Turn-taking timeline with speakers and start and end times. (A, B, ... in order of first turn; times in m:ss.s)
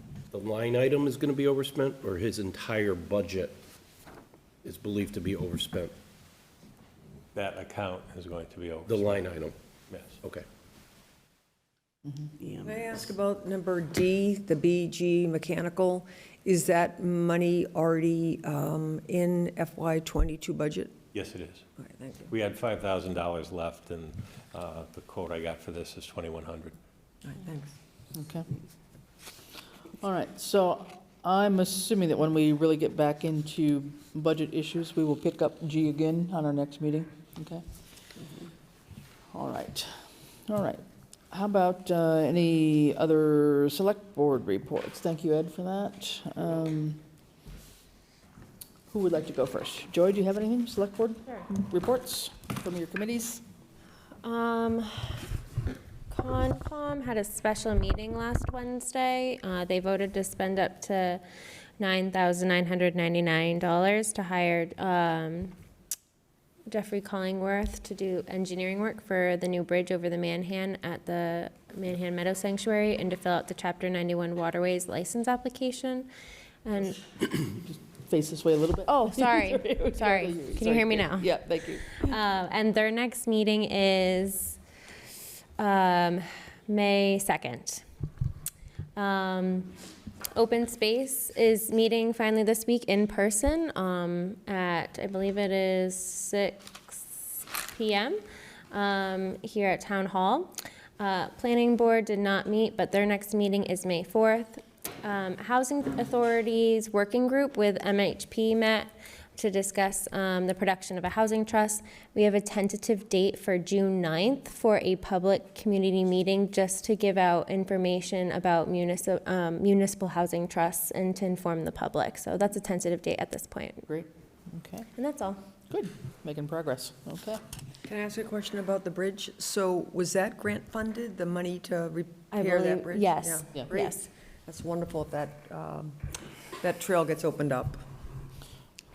0:00.3-0:03.6 A
0:04.6-0:05.9 A
0:07.4-0:09.3 B
0:08.9-0:09.5 A
0:09.9-0:10.2 B
0:12.6-0:20.9 C
0:21.1-0:21.6 B
0:21.8-0:22.3 C
0:22.3-0:26.7 B
0:27.2-0:27.8 C
0:28.1-0:28.5 D
0:30.0-0:37.6 D
0:39.3-0:47.0 D
0:48.9-0:53.4 D
0:54.2-0:55.3 E
0:56.1-1:01.2 E
1:01.8-1:05.6 E
1:06.7-1:16.1 E
1:16.6-1:17.0 E
1:17.4-1:22.1 D
1:18.9-1:24.6 E
1:25.6-1:27.8 E
1:29.0-1:29.7 E
1:30.3-1:38.2 E
1:38.7-2:03.9 E
2:03.9-2:04.9 D
2:05.0-2:05.4 E
2:05.7-2:07.4 D
2:07.8-2:17.8 C
2:12.3-2:14.1 E